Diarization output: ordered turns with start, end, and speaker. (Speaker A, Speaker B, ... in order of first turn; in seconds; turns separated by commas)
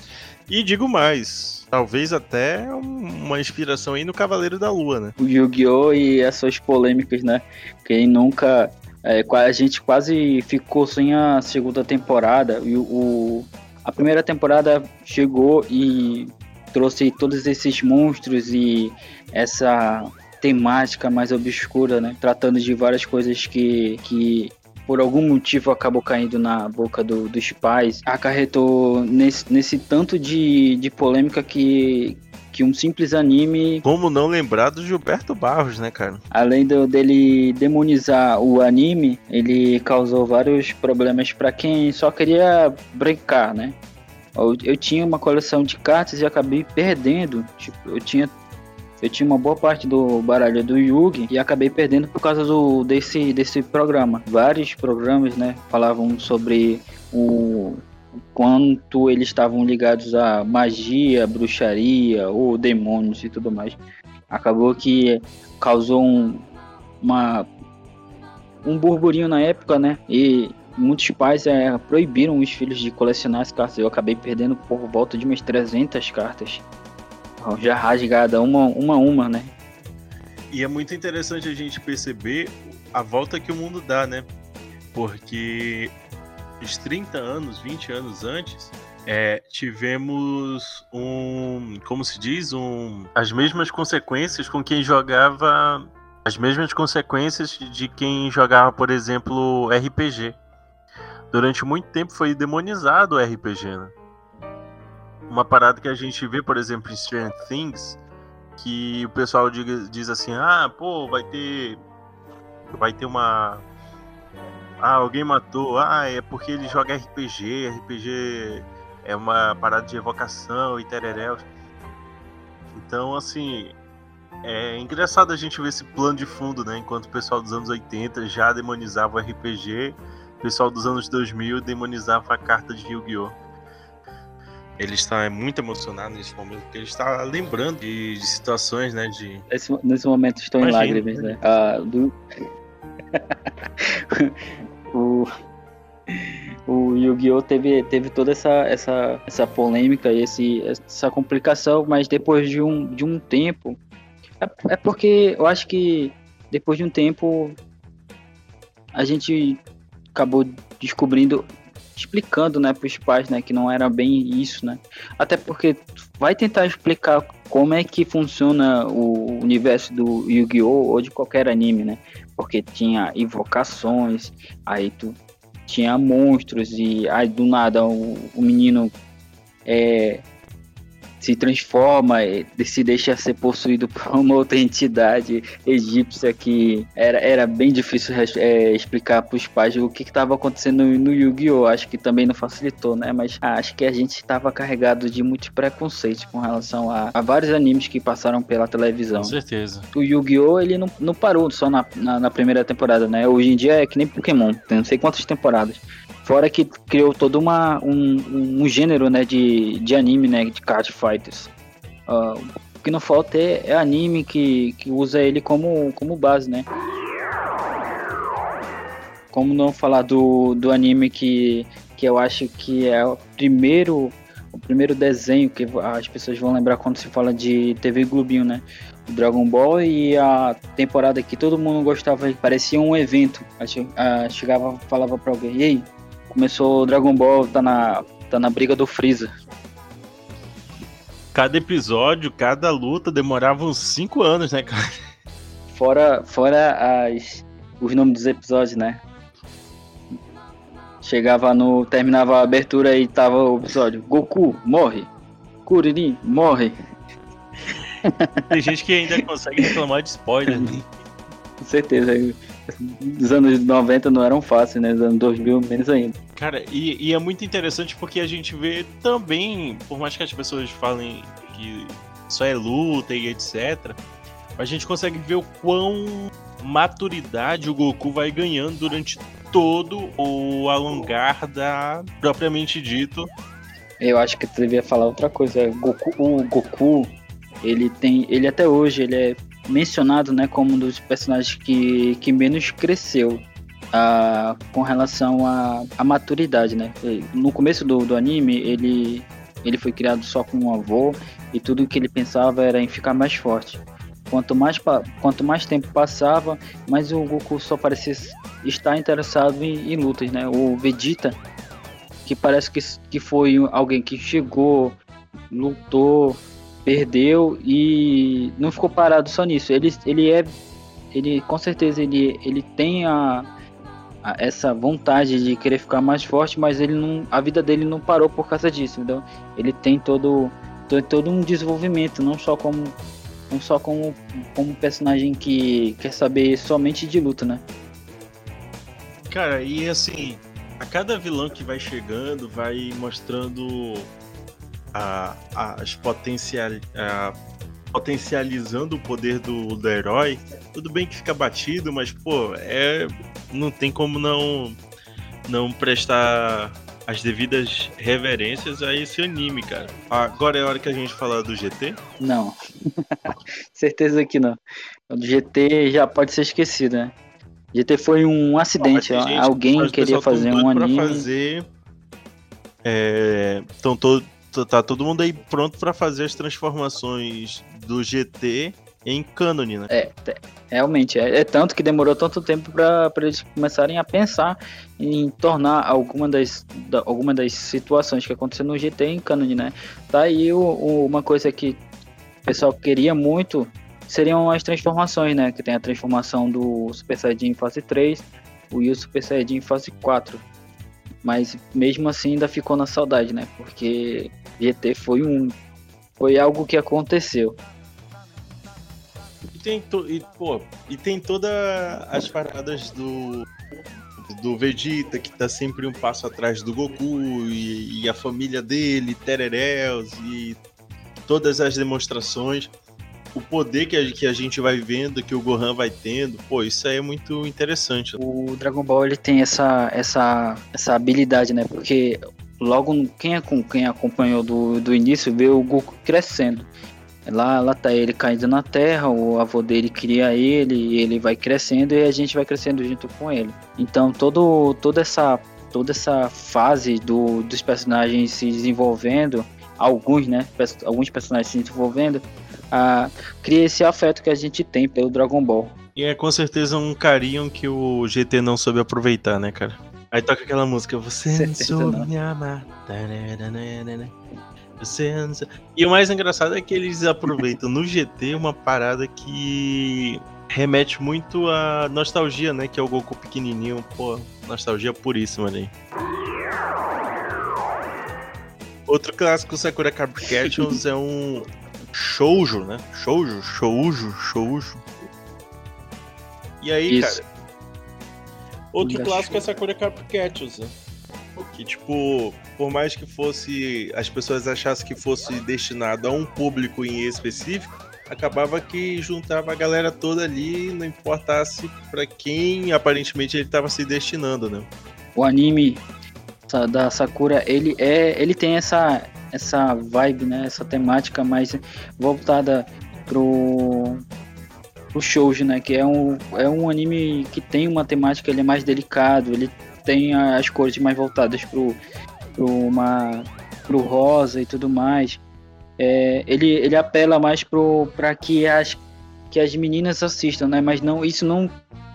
Speaker A: 0.5-5.2, Speaker B: 5.2-33.8, Speaker A: 33.8-36.2, Speaker B: 36.3-43.8, Speaker B: 44.4-48.3, Speaker B: 49.0-57.8, Speaker B: 58.3-63.8, Speaker B: 64.3-66.5, Speaker B: 67.0-67.5, Speaker B: 68.6-76.6, Speaker B: 77.4-79.5, Speaker A: 80.5-84.3, Speaker A: 84.9-85.9, Speaker A: 86.6-100.4, Speaker A: 101.3-103.9, Speaker A: 105.3-108.0, Speaker A: 108.6-111.8, Speaker A: 112.8-113.7, Speaker A: 114.8-121.5, Speaker A: 122.7-123.8, Speaker A: 124.4-133.4, Speaker A: 134.8-139.4, Speaker B: 139.5-142.2, Speaker A: 140.6-141.4, Speaker B: 143.1-144.3, Speaker B: 144.9-145.3, Speaker B: 146.1-153.8, Speaker B: 154.4-157.6, Speaker B: 158.9-159.6, Speaker B: 160.2-178.9, Speaker B: 179.7-180.2, Speaker B: 181.2-199.3, Speaker A: 199.2-199.9, Speaker B: 199.9-211.5, Speaker B: 212.1-216.7, Speaker B: 219.3-239.3, Speaker A: 241.3-245.0, Speaker B: 245.7-249.0, Speaker B: 251.0-255.1, Speaker B: 255.7-256.8, Speaker B: 258.1-258.4, Speaker A: 258.5-260.8, Speaker B: 260.5-260.8, Speaker B: 261.6-266.1, Speaker A: 266.4-274.0, Speaker A: 274.6-283.3, Speaker B: 284.0-311.4, Speaker B: 312.2-315.0, Speaker B: 315.5-320.5, Speaker B: 321.1-323.5, Speaker B: 324.2-333.0, Speaker B: 333.5-337.6, Speaker A: 339.3-344.1, Speaker A: 344.9-347.4, Speaker A: 347.9-354.8, Speaker A: 355.5-362.0, Speaker B: 362.2-362.6, Speaker B: 363.3-364.6, Speaker B: 365.1-367.1, Speaker B: 367.7-371.3, Speaker A: 368.8-371.7, Speaker A: 372.8-379.9, Speaker B: 379.9-391.8, Speaker B: 392.5-400.4, Speaker B: 401.2-405.5, Speaker B: 406.2-407.6, Speaker A: 409.5-413.5, Speaker A: 414.2-420.6, Speaker A: 421.3-422.7, Speaker A: 423.3-428.2, Speaker B: 428.2-436.7, Speaker B: 437.3-455.8, Speaker A: 456.0-464.1, Speaker B: 461.3-462.1, Speaker A: 464.8-475.7, Speaker A: 478.9-484.8, Speaker B: 480.4-480.8, Speaker A: 486.6-487.2, Speaker B: 486.9-487.2, Speaker A: 488.7-490.7, Speaker B: 488.8-489.4, Speaker A: 491.4-504.7, Speaker B: 505.2-505.8, Speaker B: 506.5-514.0, Speaker B: 514.9-521.8, Speaker B: 522.4-525.2, Speaker B: 525.8-528.8, Speaker B: 529.3-531.5